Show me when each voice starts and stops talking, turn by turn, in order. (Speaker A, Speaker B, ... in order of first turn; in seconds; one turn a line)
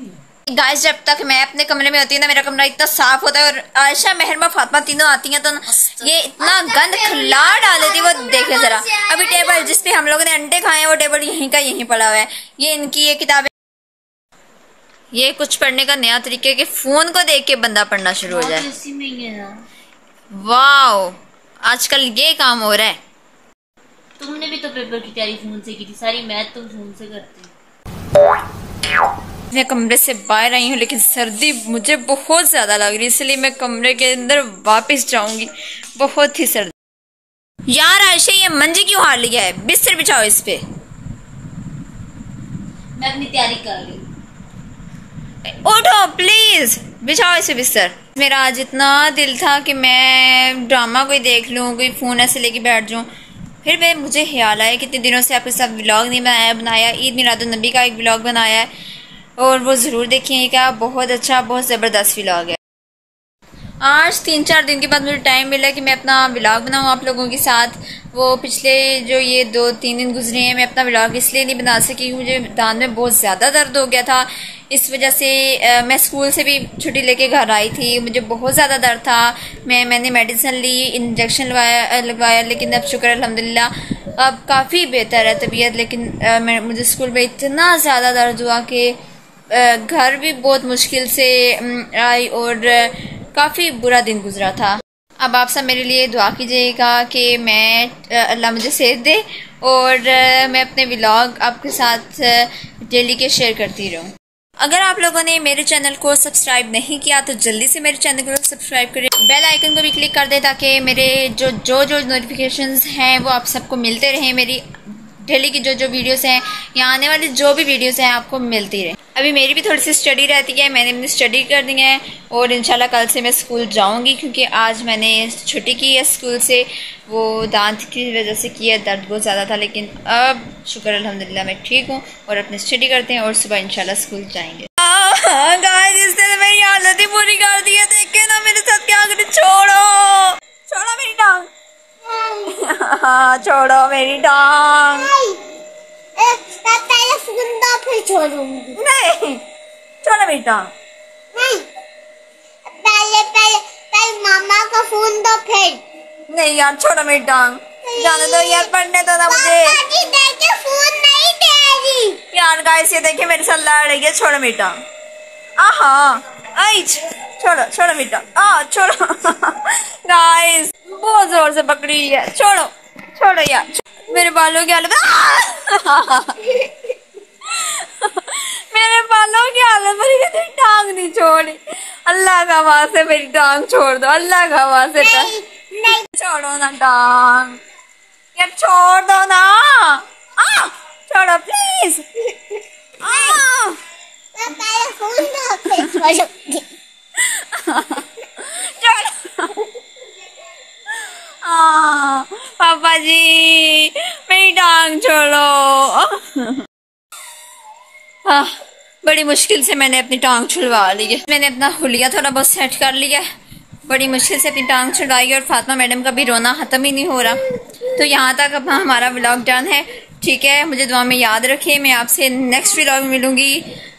Speaker A: 0.5-13.5
Speaker B: 5.7-9.7
Speaker A: 15.1-18.6
Speaker B: 18.2-19.6
Speaker A: 20.3-21.1
Speaker A: 21.6-22.9
Speaker B: 24.2-27.5
Speaker A: 29.5-36.7
Speaker A: 37.7-40.6
Speaker B: 43.0-44.0
Speaker A: 45.6-53.1
Speaker A: 53.6-58.7
Speaker A: 59.4-62.6
Speaker A: 63.8-88.9
Speaker A: 89.5-141.5
Speaker C: 142.1-142.5
Speaker A: 142.5-145.1
Speaker C: 144.9-145.4
Speaker C: 146.2-148.8
Speaker A: 148.8-149.4
Speaker A: 150.0-150.7
Speaker C: 151.3-151.7
Speaker C: 152.8-155.8
Speaker A: 156.3-159.8
Speaker C: 157.9-158.7
Speaker C: 159.3-162.2
Speaker A: 162.3-164.8
Speaker A: 165.6-176.7
Speaker A: 177.4-187.6
Speaker C: 185.0-186.0
Speaker A: 188.4-192.2
Speaker A: 193.0-193.8
Speaker C: 193.0-193.4
Speaker C: 194.4-196.7
Speaker A: 197.2-199.7
Speaker A: 201.0-206.6
Speaker A: 208.2-208.5
Speaker A: 209.0-213.2
Speaker A: 213.9-223.6